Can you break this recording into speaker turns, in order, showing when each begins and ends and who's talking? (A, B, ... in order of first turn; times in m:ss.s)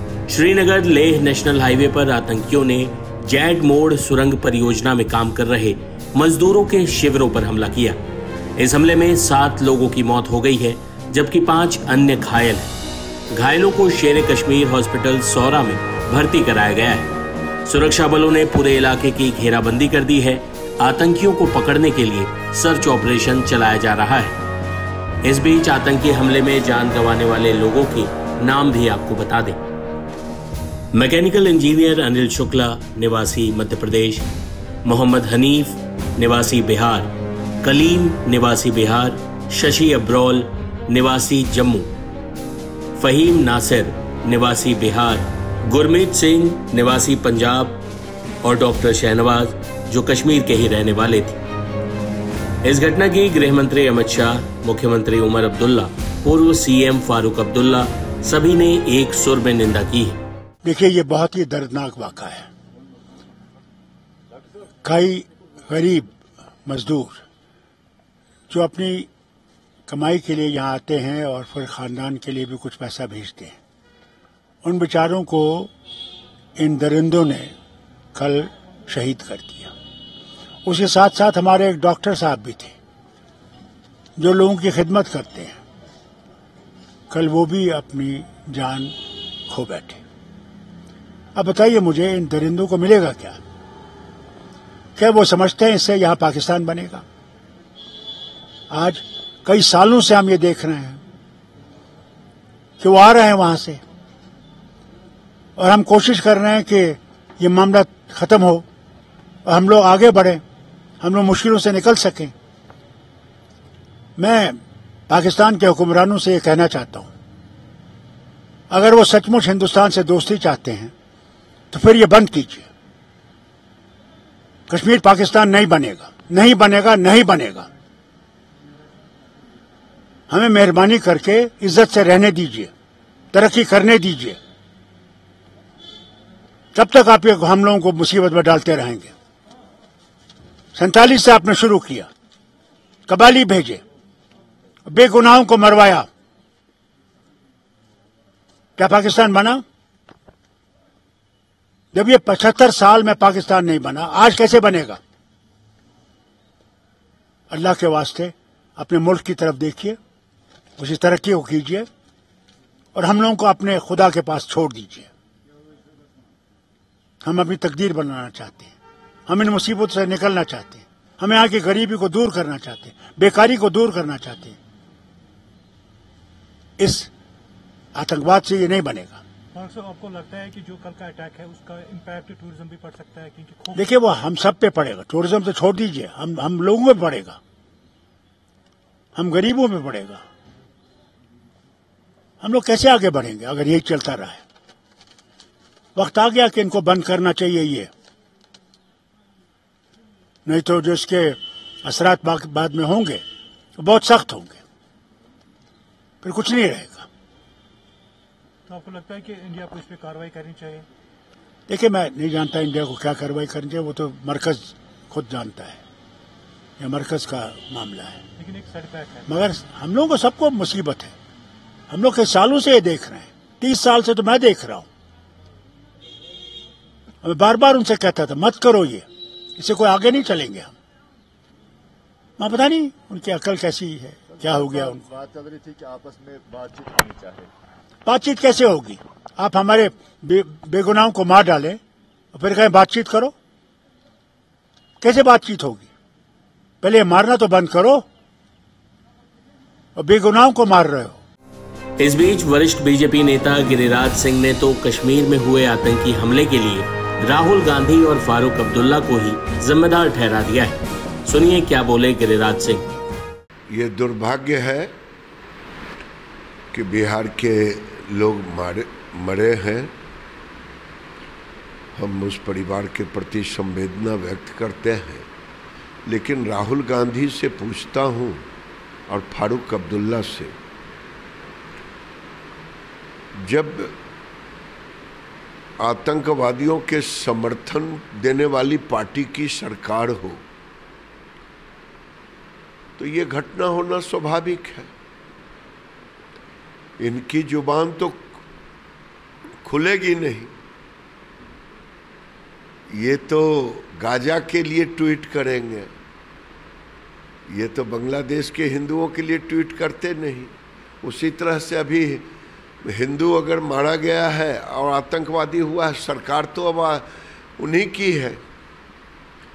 0:00.3-0:08.0 A
0:08.6-0:12.7 A
0:13.3-0:17.1 A
0:17.7-0:24.4 A
0:25.2-0:29.6 A
0:30.9-0:34.3 A
0:34.8-0:37.1 A
0:37.6-0:41.9 A
0:43.0-0:47.8 A
0:48.4-0:51.4 A
0:52.6-1:00.2 A
1:00.6-1:02.5 B
1:04.8-1:06.1 B
1:06.7-1:07.2 B
1:08.5-1:09.1 B
1:09.9-1:13.6 B
1:14.6-1:15.7 B
1:16.6-1:17.5 B
1:18.2-1:19.7 B
1:20.7-1:22.7 B
1:24.2-1:25.6 B
1:27.1-1:29.0 B
1:29.5-1:30.0 B
1:31.4-1:33.4 B
1:35.0-1:37.0 B
1:38.7-1:41.0 B
1:42.8-1:43.8 B
1:45.6-1:48.6 B
1:49.4-1:50.4 B
1:51.0-1:52.3 B
1:54.2-1:57.1 B
1:58.7-2:00.9 B
2:01.7-2:02.7 B
2:04.7-2:07.7 B
2:10.3-2:12.7 B
2:13.3-2:14.4 B
2:16.8-2:19.1 B
2:20.8-2:22.1 B
2:23.1-2:23.8 B
2:24.9-2:26.1 B
2:28.8-2:29.6 B
2:31.9-2:35.0 B
2:37.5-2:40.0 B
2:40.8-2:41.9 B
2:43.0-2:45.1 B
2:47.2-2:48.7 B
2:49.3-2:54.6 B
2:56.8-2:57.1 B
2:58.0-2:59.2 B
2:59.5-3:03.9 C
3:03.8-3:07.4 B
3:09.2-3:10.2 B
3:12.4-3:14.4 B
3:16.0-3:17.9 B
3:20.4-3:23.2 B
3:23.8-3:24.6 B
3:26.2-3:27.1 B
3:28.7-3:30.9 C
3:31.7-3:35.8 B
3:36.8-3:38.2 B
3:38.4-3:39.3 C
3:39.3-3:41.1 B
3:41.9-3:44.9 B
3:47.2-3:49.1 B
3:49.6-3:50.7 B
3:52.4-3:55.0 B
3:55.2-3:57.4 D
3:58.0-4:01.8 B
4:02.3-4:03.3 B
4:05.0-4:05.9 B
4:06.8-4:08.1 B
4:10.0-4:11.2 B
4:12.0-4:22.9 A
4:23.7-4:24.9 E
4:26.7-4:29.9 E
4:32.0-4:35.3 E
4:36.1-4:38.5 E
4:39.1-4:40.5 E
4:43.4-4:44.0 E
4:45.8-4:50.4 E
4:53.0-4:54.9 E
4:57.0-4:58.4 E
4:59.6-5:00.5 E
5:02.9-5:05.9 E
5:07.5-5:12.3 E
5:12.8-5:17.1 E
5:17.6-5:18.4 E